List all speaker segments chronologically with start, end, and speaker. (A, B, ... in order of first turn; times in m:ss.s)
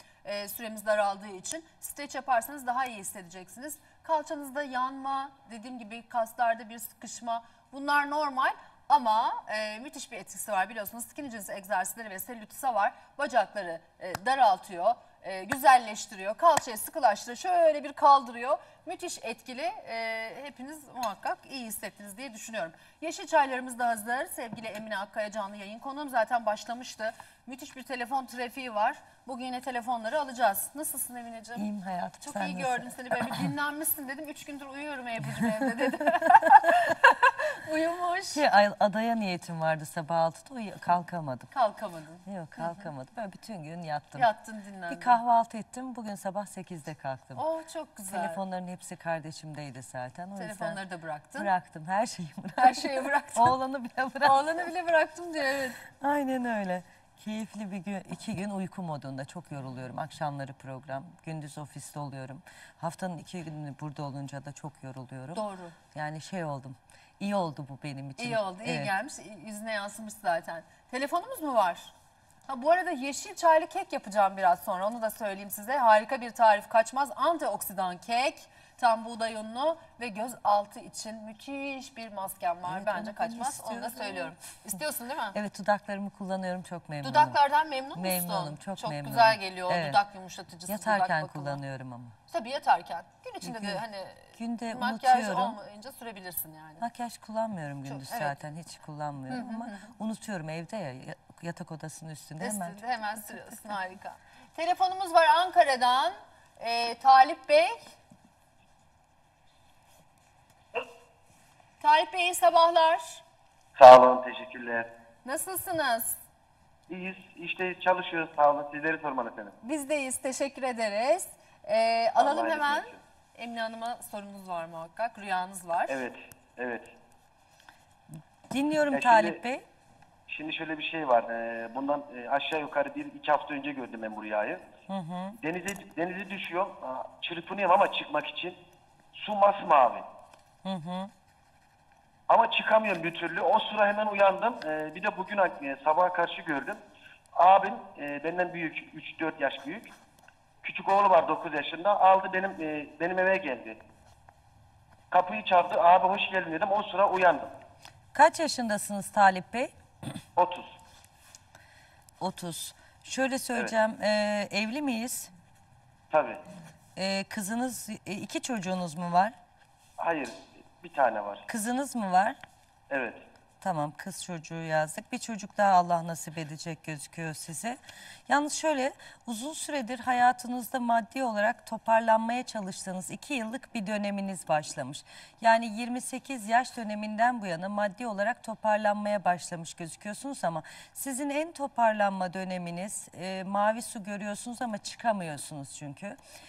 0:00.2-0:31.7 A
0:31.6-0:33.5 B
0:32.2-0:38.4 A
0:38.3-0:41.5 B
0:41.5-0:42.9 A
0:42.3-0:44.3 B
0:44.2-0:45.2 A
0:44.9-0:47.4 B
0:47.4-0:48.4 A
0:48.1-0:50.8 B
0:50.4-0:51.5 A
0:51.4-0:54.5 B
0:52.6-0:53.6 A
0:54.2-0:55.8 A
0:56.0-1:05.4 B
1:05.4-1:05.8 A
1:05.9-1:08.9 B
1:08.2-1:11.9 A
1:12.5-1:25.4 A
1:22.7-1:24.4 B
1:25.4-1:27.4 B
1:27.0-1:31.6 A
1:27.9-1:30.0 B
1:30.7-1:32.2 B
1:32.3-1:36.8 A
1:33.4-1:33.8 B
1:34.3-1:35.6 B
1:36.8-1:42.8 B
1:37.8-1:38.4 A
1:39.3-1:39.9 A
1:42.4-1:47.8 A
1:51.8-1:53.2 A
1:53.8-1:54.9 C
1:55.2-1:56.2 A
1:56.9-1:59.6 C
1:59.6-2:06.0 A
2:02.2-2:03.0 C
2:05.9-2:06.9 C
2:08.1-2:09.6 B
2:08.9-2:09.4 C
2:10.3-2:14.6 C
2:14.9-2:15.4 B
2:15.4-2:18.6 C
2:19.1-2:20.1 C
2:20.6-2:21.1 B
2:22.3-2:26.8 C
2:27.4-2:29.9 C
2:30.6-2:33.8 C
2:35.1-2:37.5 C
2:38.1-2:39.7 B
2:40.4-2:40.8 C
2:42.2-2:45.3 B
2:46.1-2:46.4 C
2:47.0-2:49.4 B
2:50.0-2:51.5 C
2:51.5-2:52.4 B
2:52.9-2:53.2 C
2:53.6-3:16.2 B